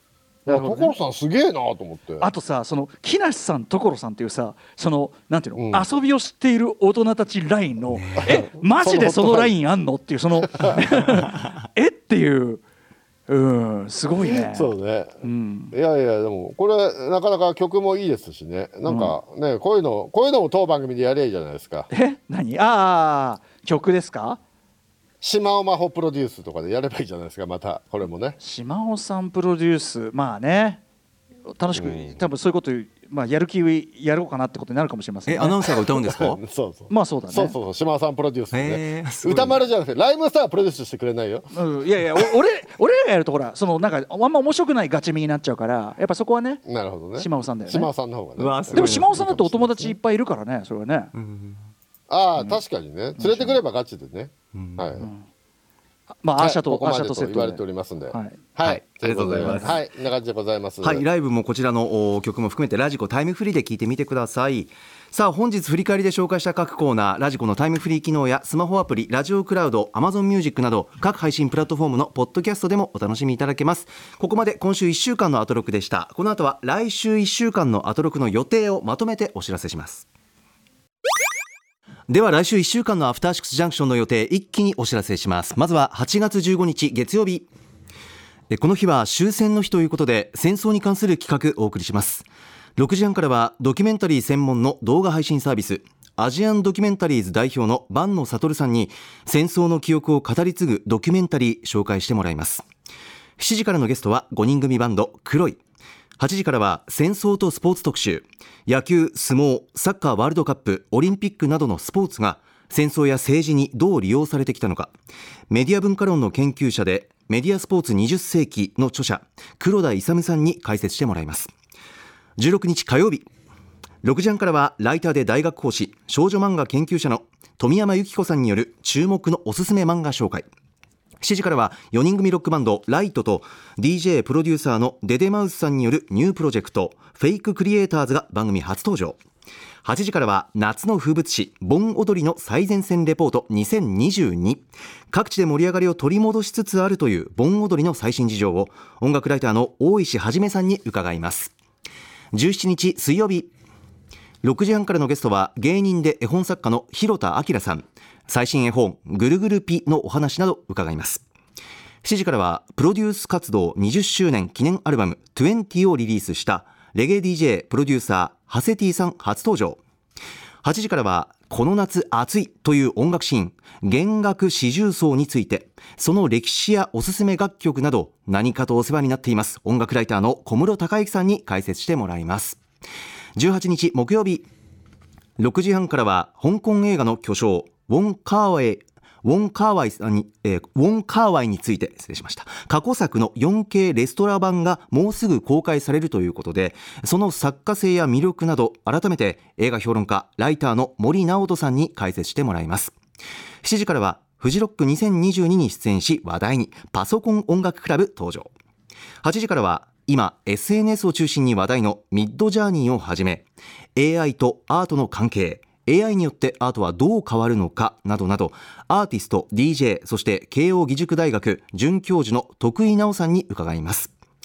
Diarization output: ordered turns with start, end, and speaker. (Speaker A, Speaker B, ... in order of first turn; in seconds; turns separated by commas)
Speaker A: 0.5-2.3, Speaker B: 0.5-0.9, Speaker B: 2.2-12.6, Speaker A: 5.6-5.8, Speaker C: 7.9-8.2, Speaker A: 8.2-9.5, Speaker A: 10.5-10.8, Speaker B: 13.3-14.7, Speaker A: 14.2-15.1, Speaker B: 15.2-15.7, Speaker A: 15.7-21.9, Speaker B: 18.9-19.1, Speaker B: 21.9-24.4, Speaker A: 25.2-28.4, Speaker B: 28.4-30.8, Speaker B: 31.5-35.6, Speaker A: 31.8-32.2, Speaker C: 35.3-36.4, Speaker A: 36.0-41.5, Speaker B: 36.9-37.5, Speaker C: 38.5-39.6, Speaker B: 41.5-46.6, Speaker A: 46.6-49.9, Speaker B: 47.2-47.9, Speaker C: 48.4-49.7, Speaker B: 48.7-51.1, Speaker C: 51.1-51.6, Speaker A: 52.1-55.0, Speaker B: 53.2-53.6, Speaker C: 54.5-55.0, Speaker B: 55.0-55.2, Speaker B: 56.2-58.4, Speaker A: 56.4-61.0, Speaker C: 58.6-59.8, Speaker B: 59.4-59.7, Speaker C: 60.8-80.1, Speaker C: 82.1-87.5, Speaker C: 88.5-102.7, Speaker C: 103.4-105.6, Speaker C: 106.2-114.9, Speaker C: 115.5-121.5, Speaker C: 122.4-123.2, Speaker C: 124.0-130.5, Speaker C: 131.2-139.2, Speaker C: 139.8-151.5, Speaker C: 152.3-153.5, Speaker C: 154.4-161.2, Speaker C: 162.0-169.8, Speaker C: 170.6-182.6, Speaker C: 183.3-184.4, Speaker C: 185.4-202.9, Speaker C: 203.6-208.5, Speaker C: 209.2-224.1